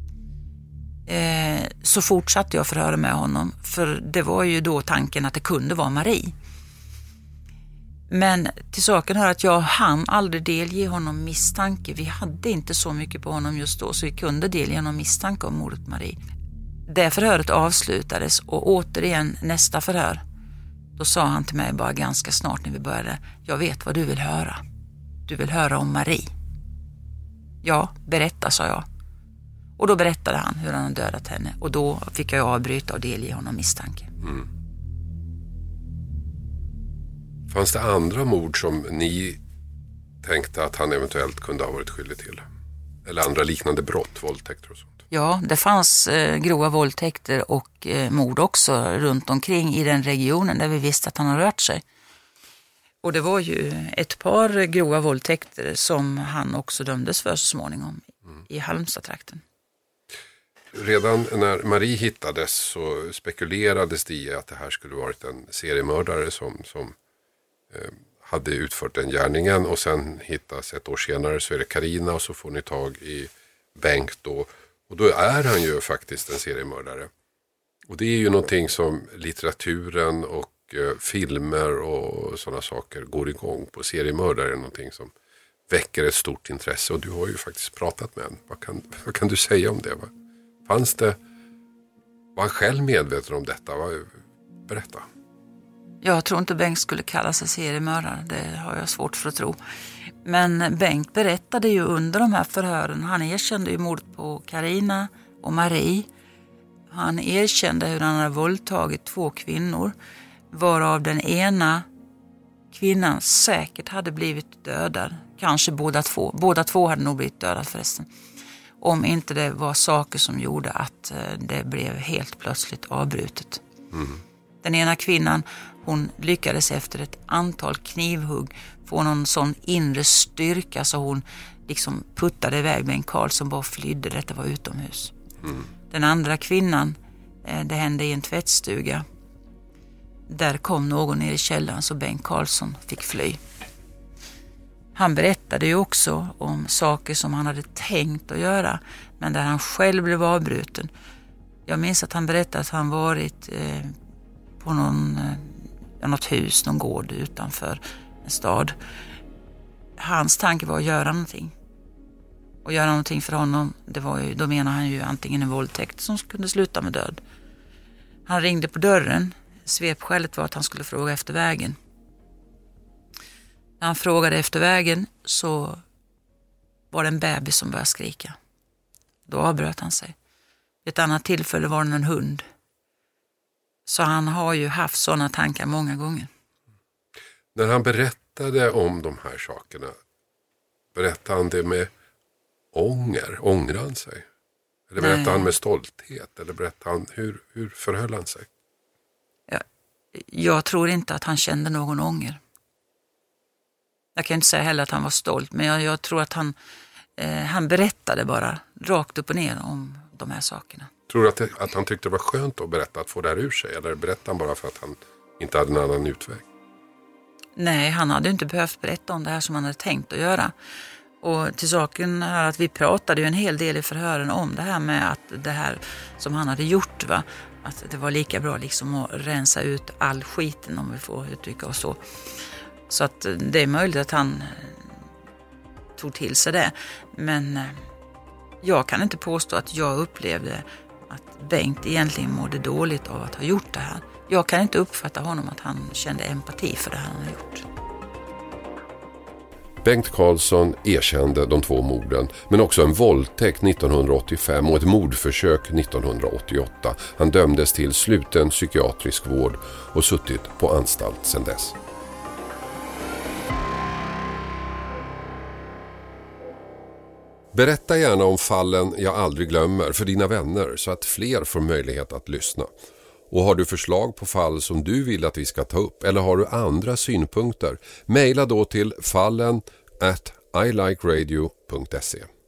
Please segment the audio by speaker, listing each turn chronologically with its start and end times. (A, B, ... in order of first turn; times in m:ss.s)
0:01.1-0:06.3 A
0:08.1-0:16.2 A
0:16.9-0:20.2 A
0:21.0-0:24.6 A
0:25.3-0:26.3 A
0:27.6-0:28.8 A
0:29.8-0:34.1 A
0:37.5-0:39.4 B
0:40.2-0:42.4 B
0:43.0-0:45.0 B
0:45.1-0:51.8 A
0:53.0-0:59.4 A
1:00.7-1:06.9 B
1:07.7-1:17.1 B
1:17.9-1:25.1 B
1:25.7-1:30.1 B
1:30.7-1:31.2 B
1:32.3-1:34.1 B
1:34.7-1:35.0 B
1:36.0-1:39.6 A
1:40.2-1:46.1 A
1:46.9-1:49.9 A
1:50.5-1:51.8 A
1:52.7-1:58.1 A
1:58.8-2:03.6 A
2:03.9-2:04.2 B
2:04.6-2:15.1 A
2:15.9-2:19.0 A
2:20.3-2:23.4 A
2:24.9-2:30.9 A
2:31.7-2:33.9 A
2:34.6-2:38.8 A
2:40.0-2:41.5 A
2:42.6-2:47.2 A
2:48.2-2:51.8 A
2:53.8-2:55.8 A
2:56.9-2:58.4 A
2:59.3-3:00.2 A
3:00.8-3:02.4 A
3:03.9-3:06.3 A
3:07.5-3:09.9 B
3:10.9-3:11.9 B
3:12.7-3:14.2 B
3:14.9-3:18.5 B
3:15.0-3:15.5 A
3:20.1-3:22.4 A
3:24.2-3:26.5 A
3:27.2-3:30.9 A
3:31.1-3:36.4 B
3:37.6-3:40.5 A
3:41.2-3:52.0 A
3:52.9-3:54.9 A
3:56.0-3:57.8 A
3:58.6-4:07.6 A
4:09.8-4:21.7 B
4:27.5-4:32.7 B
4:33.3-4:42.3 B